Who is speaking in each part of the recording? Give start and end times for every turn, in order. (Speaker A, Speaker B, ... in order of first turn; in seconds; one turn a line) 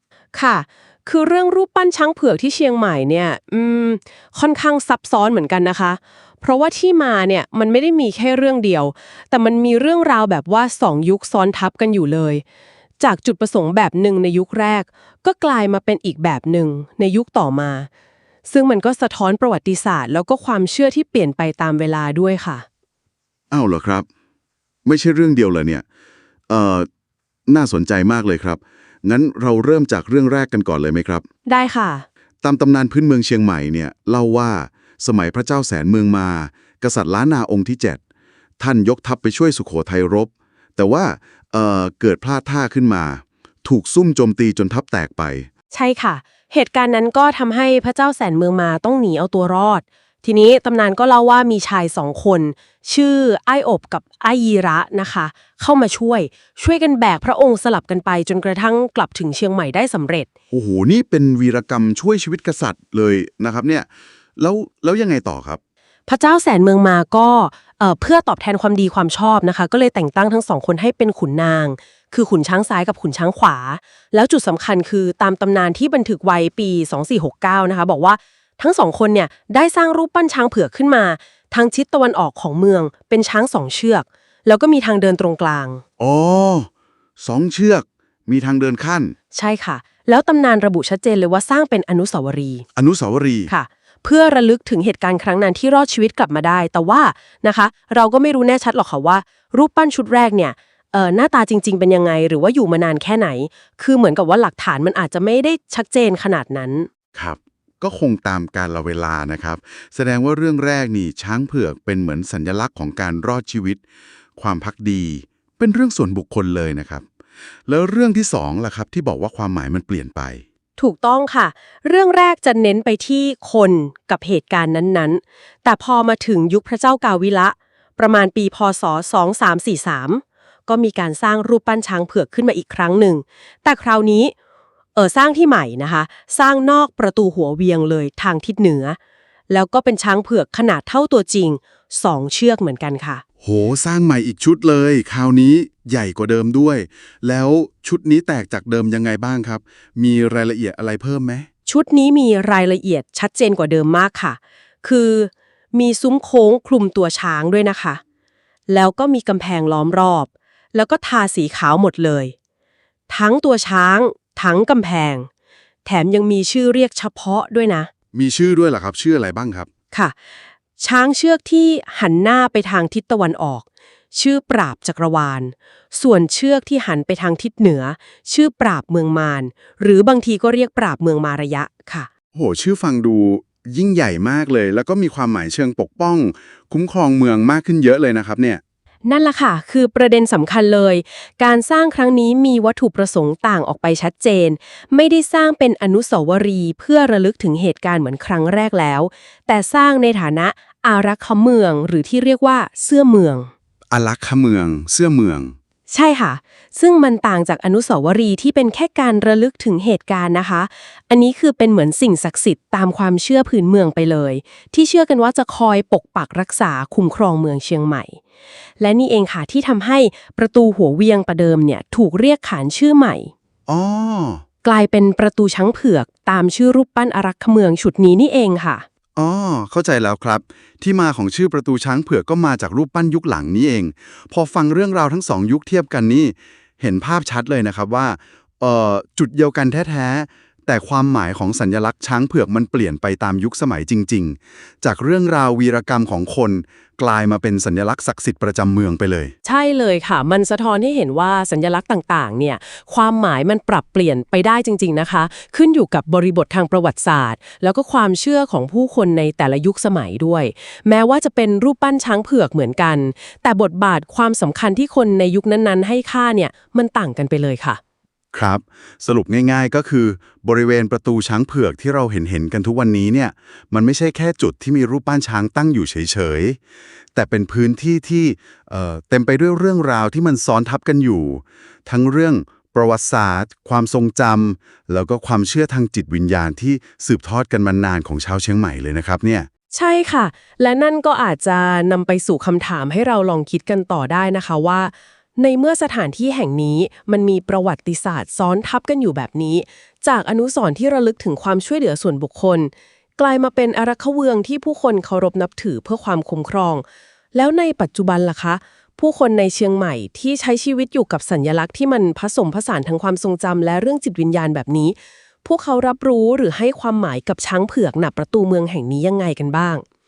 Speaker A: 0.3-12.4
Speaker A: 13.0-17.9
Speaker A: 18.4-22.6
Speaker B: 23.5-24.1
Speaker B: 24.8-25.8
Speaker B: 26.5-26.9
Speaker B: 27.5-31.2
Speaker A: 31.4-32.0
Speaker B: 32.4-38.0
Speaker B: 38.6-45.5
Speaker A: 45.7-60.3
Speaker B: 60.5-65.6
Speaker A: 66.1-85.8
Speaker B: 86.0-86.7
Speaker B: 87.2-89.1
Speaker A: 89.3-92.6
Speaker B: 92.8-93.5
Speaker A: 93.5-106.9
Speaker B: 107.1-113.8
Speaker B: 114.4-117.0
Speaker B: 117.7-120.4
Speaker A: 120.8-134.3
Speaker A: 134.9-139.0
Speaker A: 139.5-143.2
Speaker B: 143.4-151.4
Speaker A: 151.7-158.0
Speaker A: 158.7-162.3
Speaker A: 163.1-165.3
Speaker A: 165.8-167.9
Speaker B: 168.1-169.7
Speaker A: 170.8-182.1
Speaker B: 182.3-188.6
Speaker A: 189.0-203.5
Speaker B: 203.9-205.5
Speaker A: 205.9-218.2
Speaker A: 218.8-223.3
Speaker B: 223.7-224.4
Speaker A: 224.6-228.8
Speaker B: 229.2-249.3
Speaker A: 249.4-267.8
Speaker B: 268.3-276.6
Speaker B: 277.1-289.5
Speaker A: 289.7-319.8